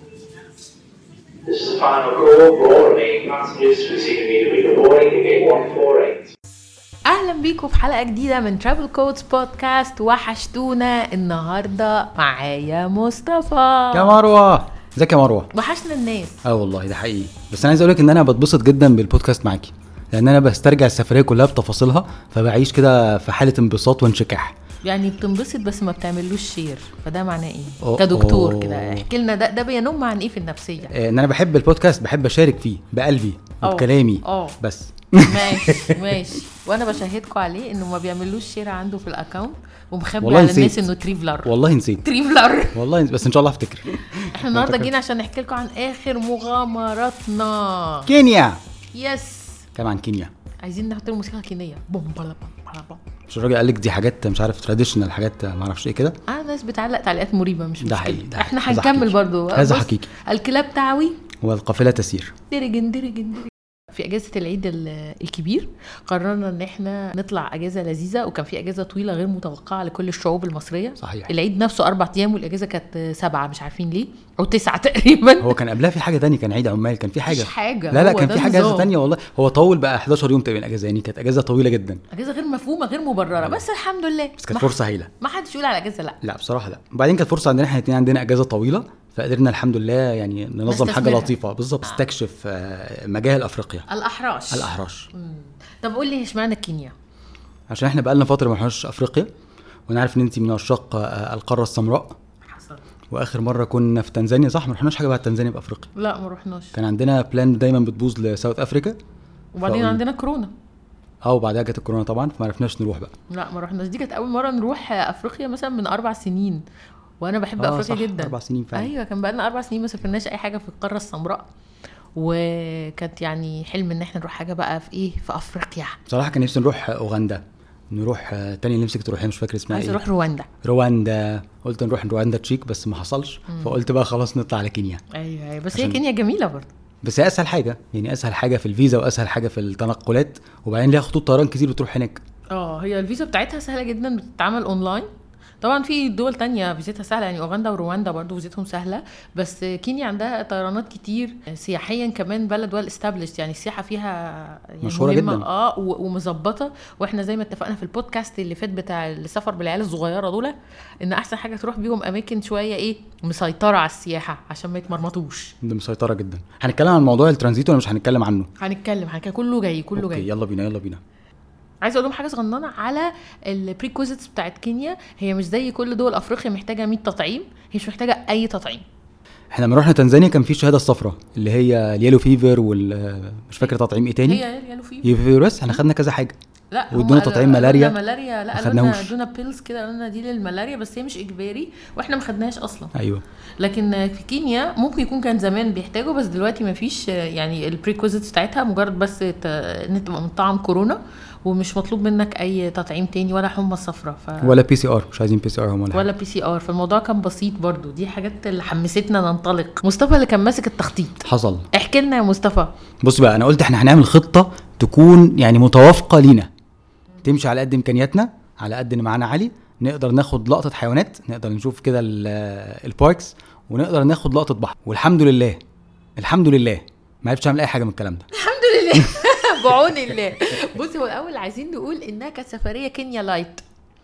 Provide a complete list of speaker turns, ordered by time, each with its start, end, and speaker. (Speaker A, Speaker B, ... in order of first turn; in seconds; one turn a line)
Speaker A: 1.5-6.3
Speaker B: 7.1-14.1
Speaker C: 13.9-15.5
Speaker B: 15.5-16.4
Speaker C: 16.4-24.6
Speaker B: 24.9-30.9
Speaker C: 27.8-29.1
Speaker C: 30.9-36.2
Speaker B: 33.6-34.6
Speaker B: 35.2-42.8
Speaker C: 40.2-40.9
Speaker C: 41.4-42.0
Speaker C: 42.7-44.9
Speaker B: 44.3-48.1
Speaker C: 48.1-48.6
Speaker B: 48.9-49.7
Speaker C: 49.8-50.3
Speaker B: 50.6-53.0
Speaker C: 53.3-56.2
Speaker B: 56.3-61.2
Speaker C: 57.8-60.1
Speaker C: 61.4-62.3
Speaker B: 62.5-75.6
Speaker C: 71.0-71.3
Speaker C: 75.4-82.0
Speaker B: 77.3-78.9
Speaker B: 82.1-86.2
Speaker C: 83.4-83.6
Speaker C: 84.4-85.1
Speaker C: 86.2-93.9
Speaker B: 90.7-91.3
Speaker B: 93.9-96.9
Speaker C: 94.5-95.1
Speaker C: 97.7-99.3
Speaker C: 99.9-102.2
Speaker B: 102.5-102.8
Speaker C: 103.1-105.9
Speaker B: 106.0-106.8
Speaker C: 106.7-109.0
Speaker B: 109.5-110.5
Speaker C: 109.6-110.0
Speaker C: 111.2-113.1
Speaker B: 113.3-116.6
Speaker B: 117.2-121.5
Speaker C: 117.6-118.9
Speaker B: 122.2-126.0
Speaker C: 126.1-130.0
Speaker B: 129.7-130.5
Speaker C: 130.6-135.0
Speaker B: 133.5-133.8
Speaker B: 135.1-136.7
Speaker C: 135.7-136.0
Speaker C: 137.0-142.2
Speaker B: 142.5-145.1
Speaker B: 145.6-165.6
Speaker C: 154.8-155.5
Speaker C: 165.6-168.5
Speaker B: 168.6-170.3
Speaker C: 170.0-171.0
Speaker B: 171.8-178.8
Speaker C: 179.5-184.4
Speaker B: 184.2-185.1
Speaker C: 185.0-186.4
Speaker B: 186.7-192.9
Speaker C: 186.9-187.9
Speaker C: 188.6-189.1
Speaker C: 192.9-193.2
Speaker B: 193.6-204.6
Speaker C: 204.4-206.1
Speaker B: 205.9-212.7
Speaker C: 211.2-211.7
Speaker C: 213.0-216.5
Speaker C: 217.2-225.6
Speaker C: 226.2-228.3
Speaker B: 228.3-233.6